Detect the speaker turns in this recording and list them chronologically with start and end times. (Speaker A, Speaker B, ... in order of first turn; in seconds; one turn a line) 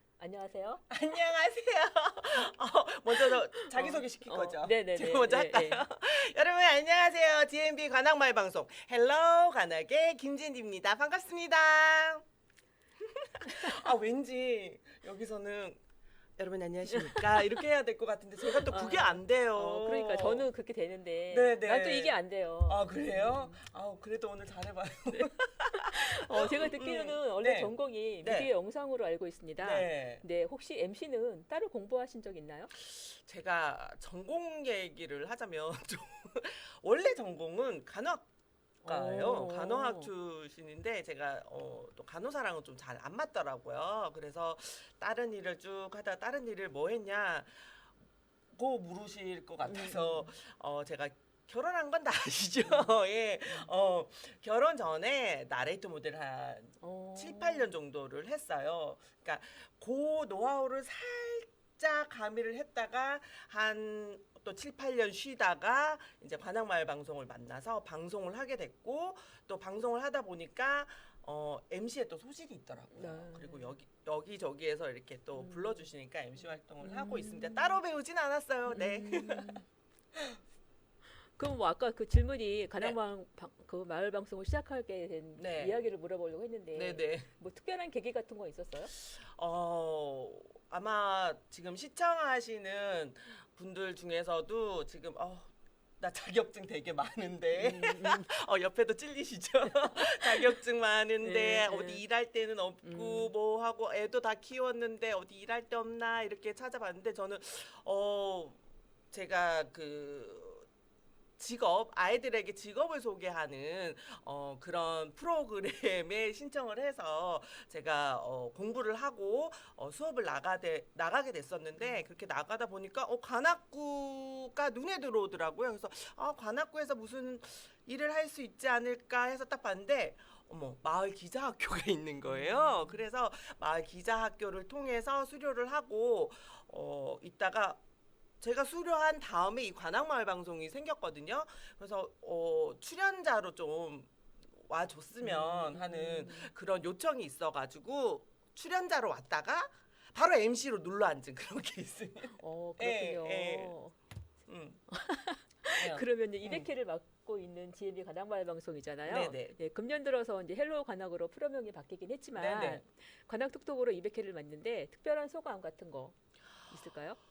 Speaker A: 0.2-0.8
Speaker B: 0.9-12.2
Speaker A: 3.3-5.9
Speaker B: 13.0-15.8
Speaker A: 13.4-13.8
Speaker B: 16.4-20.4
Speaker A: 16.9-17.4
Speaker A: 18.6-23.6
Speaker B: 21.3-27.7
Speaker A: 25.1-32.7
Speaker B: 28.2-28.5
Speaker B: 29.6-30.2
Speaker B: 33.0-38.3
Speaker A: 38.8-40.1
Speaker B: 38.9-47.8
Speaker B: 48.5-79.6
Speaker A: 49.6-50.3
Speaker A: 52.6-53.0
Speaker A: 53.5-53.7
Speaker A: 56.8-57.7
Speaker A: 72.9-73.8
Speaker A: 75.3-75.9
Speaker A: 76.8-77.8
Speaker A: 78.7-79.7
Speaker A: 81.4-88.9
Speaker B: 85.4-85.8
Speaker B: 86.8-87.3
Speaker B: 89.0-110.7
Speaker A: 97.5-98.3
Speaker A: 99.7-100.5
Speaker A: 101.2-102.0
Speaker A: 102.8-103.3
Speaker B: 111.4-137.8
Speaker A: 121.8-122.1
Speaker A: 132.3-133.1
Speaker B: 138.4-153.8
Speaker A: 145.2-146.5
Speaker A: 152.4-154.0
Speaker B: 154.5-154.8
Speaker A: 154.9-166.2
Speaker B: 155.8-156.7
Speaker B: 159.1-159.6
Speaker B: 162.4-162.8
Speaker A: 166.7-167.2